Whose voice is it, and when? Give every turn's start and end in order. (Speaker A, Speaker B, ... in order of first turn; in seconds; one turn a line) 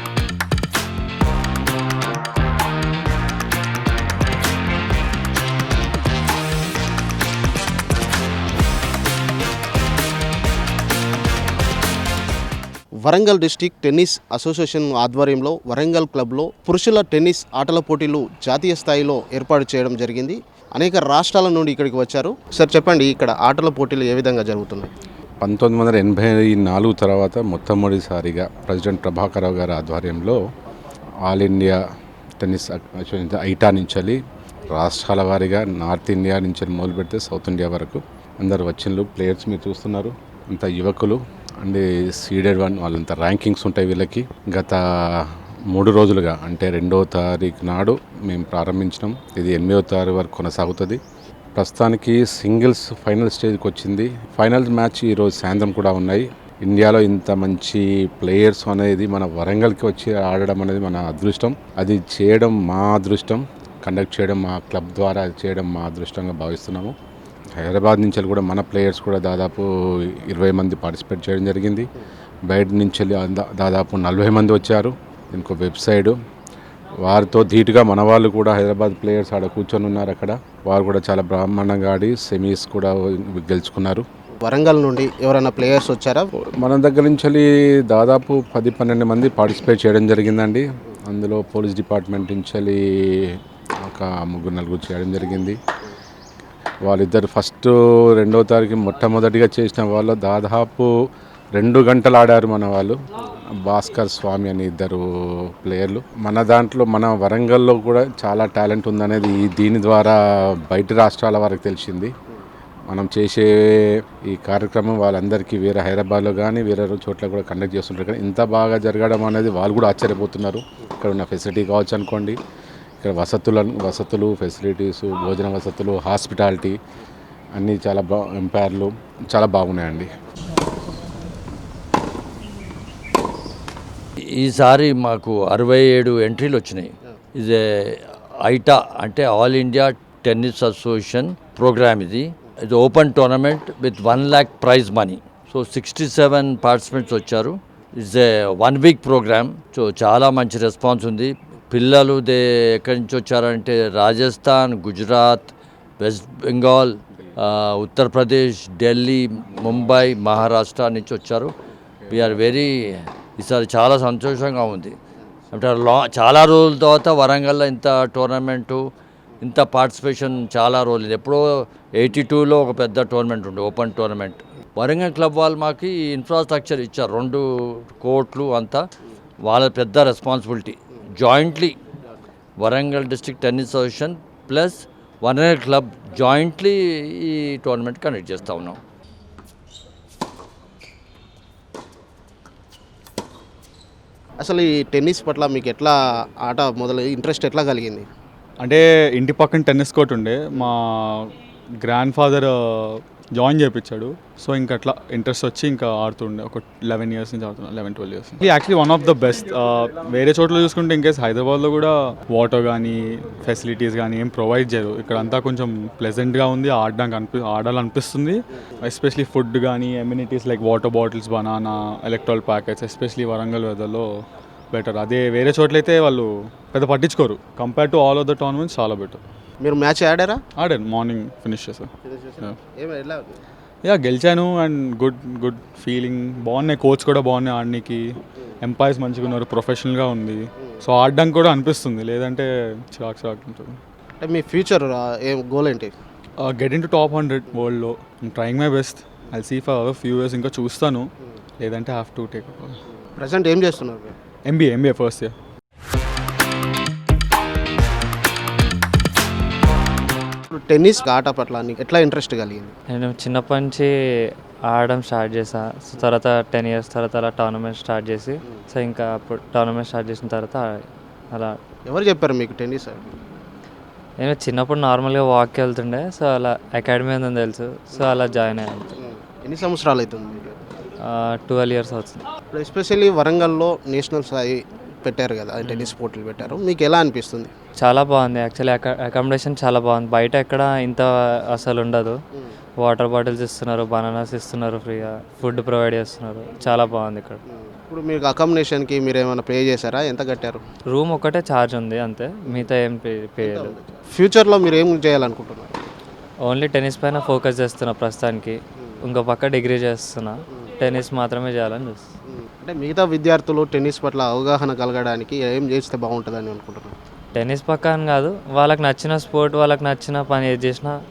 Speaker A: 13.0-24.9
Speaker B: 25.4-30.4
Speaker B: 31.2-31.8
Speaker B: 32.4-34.2
Speaker B: 34.7-51.0
Speaker B: 51.5-66.9
Speaker B: 67.6-71.9
Speaker B: 72.5-76.1
Speaker B: 77.0-84.0
Speaker A: 84.4-86.3
Speaker B: 86.3-95.6
Speaker B: 96.8-100.9
Speaker B: 101.5-105.0
Speaker B: 105.6-112.1
Speaker B: 112.9-122.4
Speaker B: 123.0-126.8
Speaker B: 127.5-130.1
Speaker C: 134.2-161.5
Speaker C: 162.1-164.9
Speaker C: 165.5-168.8
Speaker C: 169.4-178.8
Speaker C: 179.4-181.8
Speaker C: 182.6-188.8
Speaker A: 194.4-198.1
Speaker D: 198.6-229.2
Speaker A: 229.6-230.4
Speaker D: 230.6-232.5
Speaker A: 232.0-233.4
Speaker D: 233.8-243.8
Speaker A: 244.2-245.9
Speaker D: 246.4-251.1
Speaker D: 251.6-252.8
Speaker A: 253.2-254.1
Speaker D: 254.4-255.3
Speaker A: 260.5-262.7
Speaker E: 262.9-263.9
Speaker E: 264.7-271.6
Speaker A: 271.9-273.1
Speaker E: 274.2-279.0
Speaker A: 279.0-280.6
Speaker E: 281.0-282.2
Speaker A: 282.5-287.5
Speaker E: 285.6-285.9
Speaker E: 287.8-292.2
Speaker E: 292.8-297.4
Speaker A: 297.5-300.6
Speaker E: 300.9-303.7
Speaker A: 303.4-305.8
Speaker E: 306.4-312.1
Speaker A: 312.3-316.9
Speaker E: 317.3-321.0